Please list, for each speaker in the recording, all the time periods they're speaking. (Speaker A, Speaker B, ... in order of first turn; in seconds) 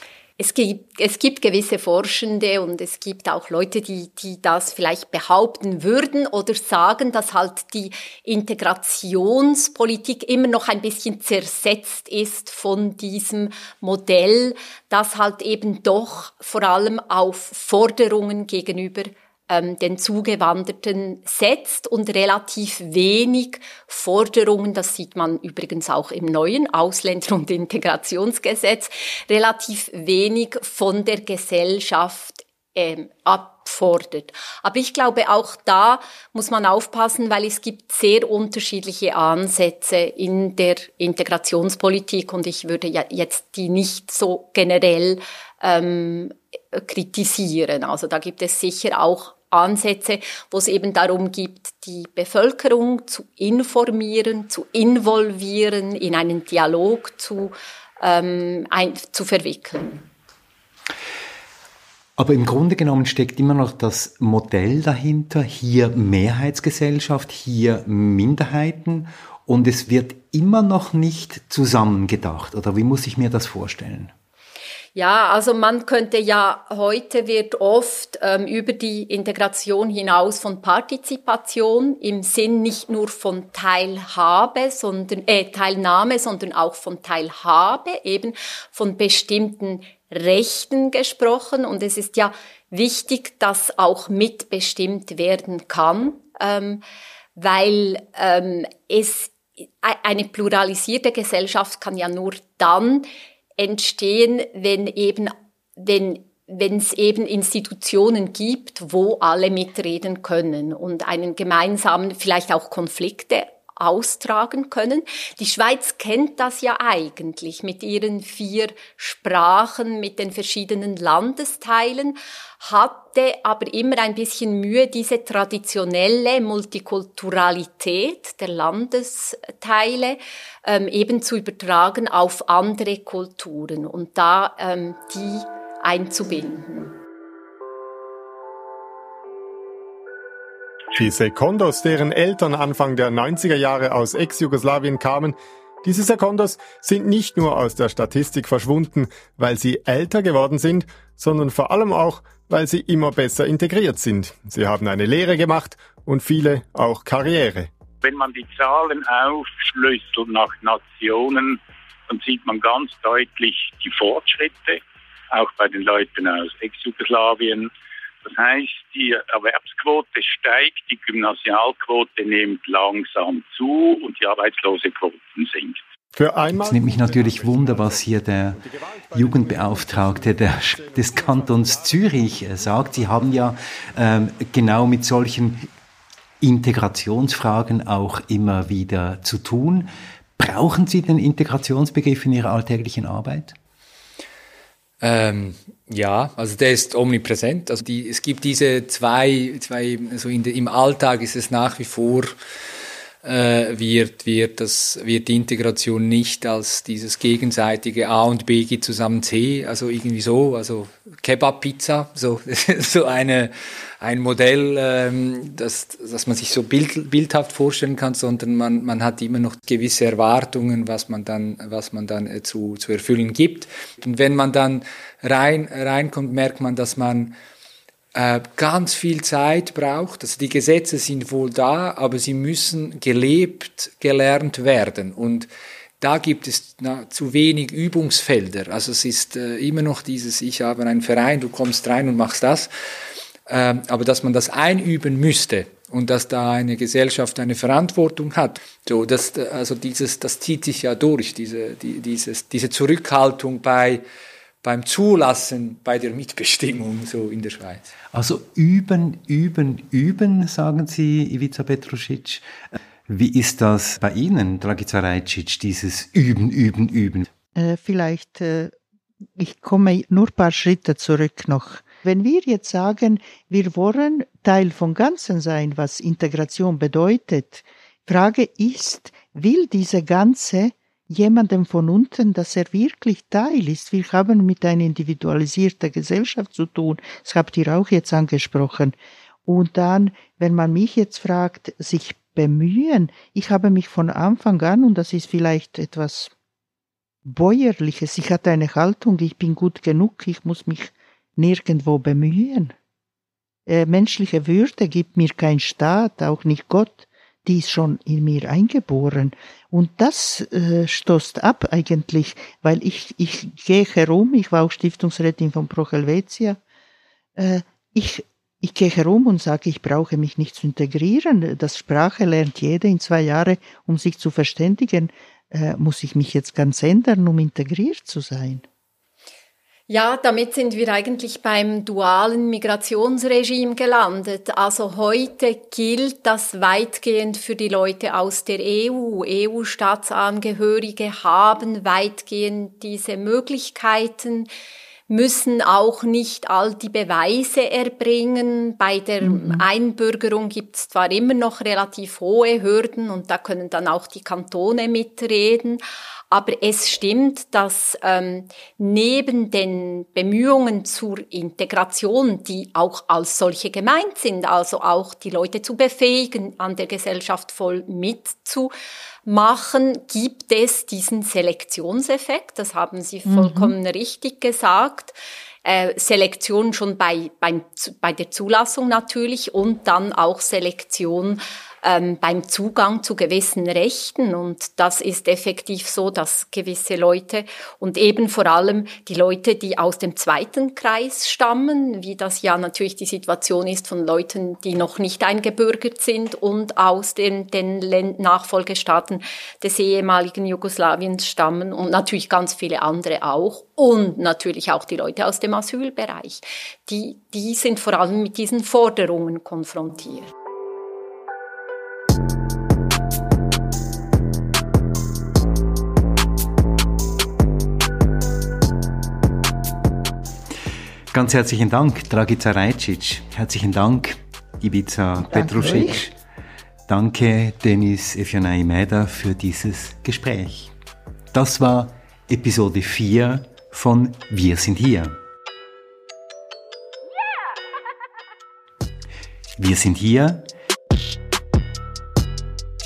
Speaker A: 0.4-60.0, 75.0-96.8, 97.4-103.1, 103.6-137.0, 329.9-344.5, 345.1-368.7, 369.2-410.3
Speaker B: 62.2-74.1, 176.6-185.6, 186.4-193.6, 258.1-267.3, 421.1-426.1, 426.9-430.7, 431.3-435.2, 439.6-440.5
Speaker C: 140.9-157.7, 176.2-178.1, 178.6-182.1
Speaker D: 158.0-164.8, 165.3-167.7, 168.2-175.8
Speaker E: 195.0-202.3, 203.2-227.4, 228.1-235.5, 236.0-242.7, 243.5-254.0, 254.6-257.9
Speaker F: 267.6-268.7, 269.4-288.9, 289.4-296.3, 297.2-302.7, 303.7-316.6, 317.4-328.6, 349.2-349.6, 373.3-373.7, 425.3-426.0